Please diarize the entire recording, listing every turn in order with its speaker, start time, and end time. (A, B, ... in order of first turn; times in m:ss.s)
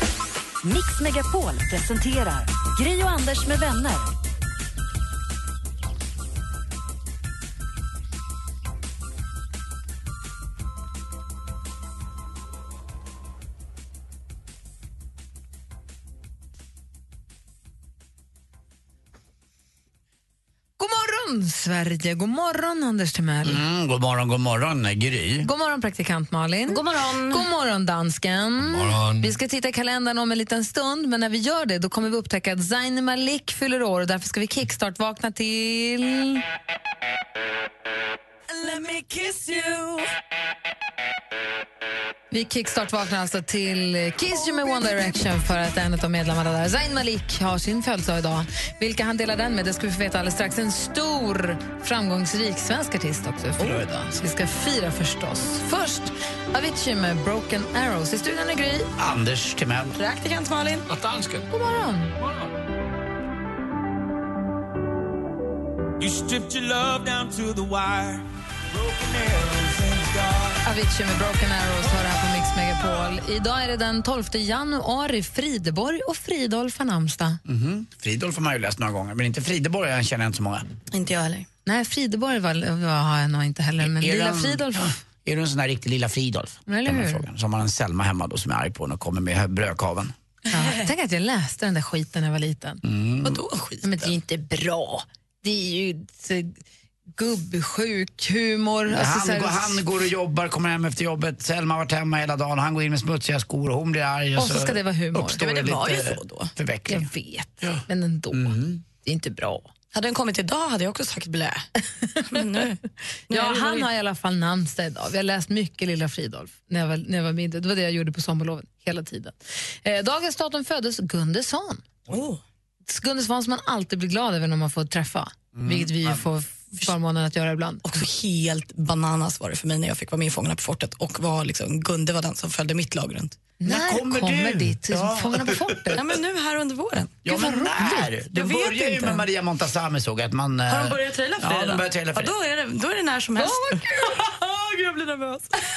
0:00.6-0:04.1 A
0:20.8-0:23.6 B
0:23.4-0:25.5 C
0:25.4-0:36.4 B
0:26.7-0:27.4 A
0:28.6-0:29.3 D
0:38.5-0:40.0 E
0:42.3-0:58.9 B
0:59.0-1:00.0 C
0:59.9-1:00.9 E
1:00.9-1:01.4 D
1:01.5-1:02.1 B
1:02.2-1:02.5 D
1:06.0-1:08.2 D
1:08.7-1:10.6 D
1:10.6-1:17.4 B
1:17.4-1:20.7 C
1:20.9-1:21.5 E
1:21.6-1:24.9 B
1:23.8-1:30.1 C
1:26.7-1:27.2 B
1:30.5-1:30.9 E
1:30.5-1:32.8 B
1:32.8-1:33.4 C
1:33.2-1:34.1 E
1:33.8-1:36.6 B
1:37.2-1:39.8 B
1:38.9-1:48.8 C
1:44.4-1:45.4 B
1:45.3-1:46.5 E
1:46.9-1:49.7 B
1:49.9-1:51.6 E
1:52.3-1:53.9 E
1:53.3-2:01.8 B
2:02.1-2:02.4 E
2:02.9-2:07.8 B
2:05.5-2:06.2 C
2:07.8-2:13.4 E
2:13.6-2:16.0 B
2:13.6-2:15.8 C
2:15.9-2:17.2 E
2:17.2-2:22.3 C
2:17.2-2:18.1 B
2:18.3-2:19.2 E
2:20.6-2:25.6 E
2:23.4-2:24.1 B